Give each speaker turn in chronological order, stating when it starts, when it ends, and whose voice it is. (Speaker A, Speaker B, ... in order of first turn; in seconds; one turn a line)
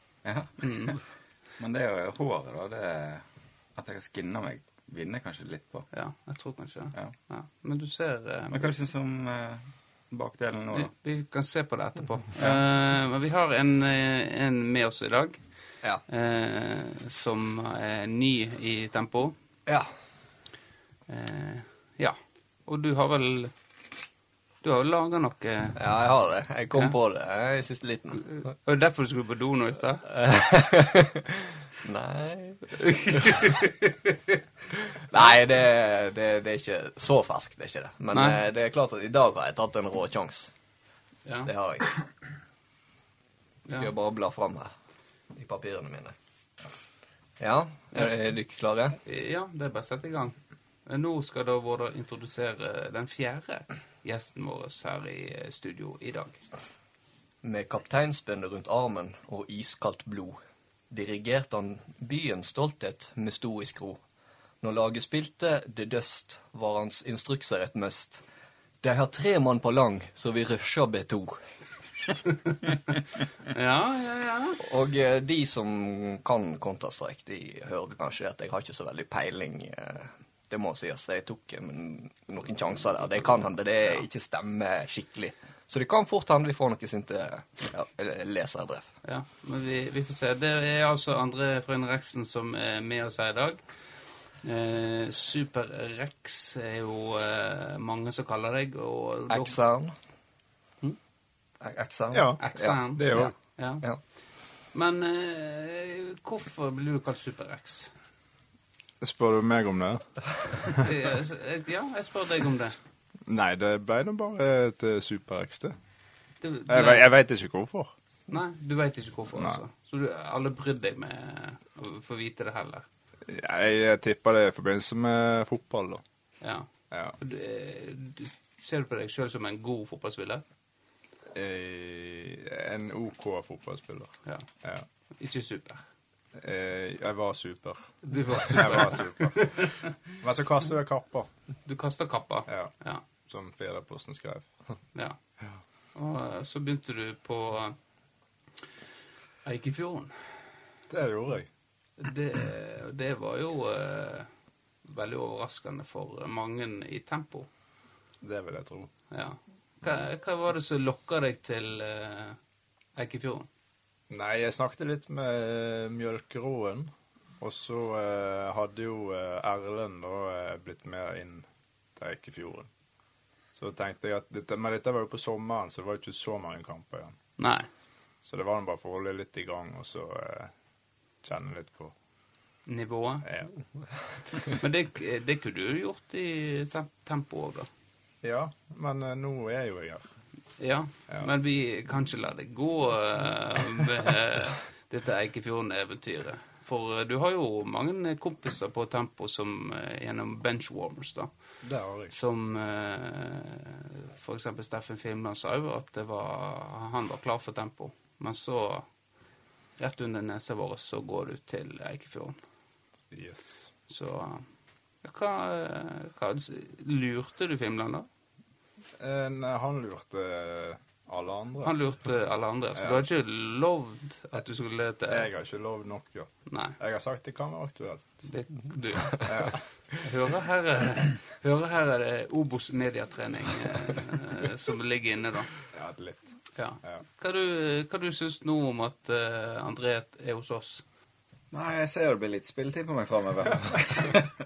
Speaker A: 0.2-5.9
Speaker B: 0.6-1.0
Speaker B: 5.9-8.7
Speaker A: 8.5-10.9
Speaker B: 10.7-19.3
Speaker C: 19.6-19.9
Speaker B: 21.1-23.5
Speaker B: 24.6-25.8
Speaker C: 25.8-28.5
Speaker B: 28.2-30.1
Speaker C: 30.1-33.3
Speaker B: 32.8-33.7
Speaker C: 34.9-40.5
Speaker B: 38.1-38.4
Speaker B: 41.2-41.5
Speaker C: 41.5-41.9
Speaker B: 43.6-43.9
Speaker C: 43.8-44.7
Speaker C: 45.3-46.1
Speaker C: 47.4-49.0
Speaker B: 49.0-56.4
Speaker C: 57.4-60.4
Speaker C: 60.9-64.0
Speaker C: 64.6-68.2
Speaker C: 68.8-71.4
Speaker B: 73.5-74.6
Speaker C: 74.6-88.9
Speaker B: 89.0-99.5
Speaker C: 99.3-99.9
Speaker C: 101.6-104.0
Speaker D: 102.1-103.3
Speaker B: 102.4-107.9
Speaker D: 109.0-110.8
Speaker B: 110.8-112.8
Speaker D: 113.2-115.8
Speaker B: 116.4-117.1
Speaker D: 116.7-117.9
Speaker B: 118.3-122.8
Speaker D: 119.3-119.6
Speaker D: 123.3-126.0
Speaker B: 126.4-130.4
Speaker D: 126.9-127.2
Speaker D: 131.3-134.8
Speaker B: 135.1-135.8
Speaker D: 136.4-141.3
Speaker B: 138.0-139.7
Speaker B: 141.6-143.0
Speaker D: 142.5-144.6
Speaker B: 144.9-145.2
Speaker B: 145.9-147.8
Speaker B: 149.4-150.4
Speaker D: 150.9-151.5
Speaker B: 152.0-154.3
Speaker B: 154.8-157.5
Speaker D: 158.2-158.9
Speaker B: 159.1-162.4
Speaker B: 162.9-163.5
Speaker D: 164.1-172.7
Speaker D: 173.5-177.2
Speaker B: 177.4-177.7
Speaker D: 178.2-180.5
Speaker D: 181.2-181.9
Speaker B: 182.7-183.2
Speaker D: 183.2-183.6
Speaker B: 184.4-187.7
Speaker D: 188.2-190.2
Speaker B: 190.6-201.3
Speaker D: 201.6-202.1
Speaker B: 202.1-208.9
Speaker B: 209.8-212.4
Speaker D: 213.1-213.7
Speaker B: 213.9-214.5
Speaker B: 215.0-218.1
Speaker D: 219.0-222.0
Speaker B: 221.6-225.3
Speaker D: 222.7-223.1
Speaker D: 225.0-228.3
Speaker B: 226.5-226.8
Speaker B: 228.2-235.6
Speaker D: 229.2-229.9
Speaker D: 235.7-237.0
Speaker B: 236.5-240.8
Speaker A: 241.5-244.3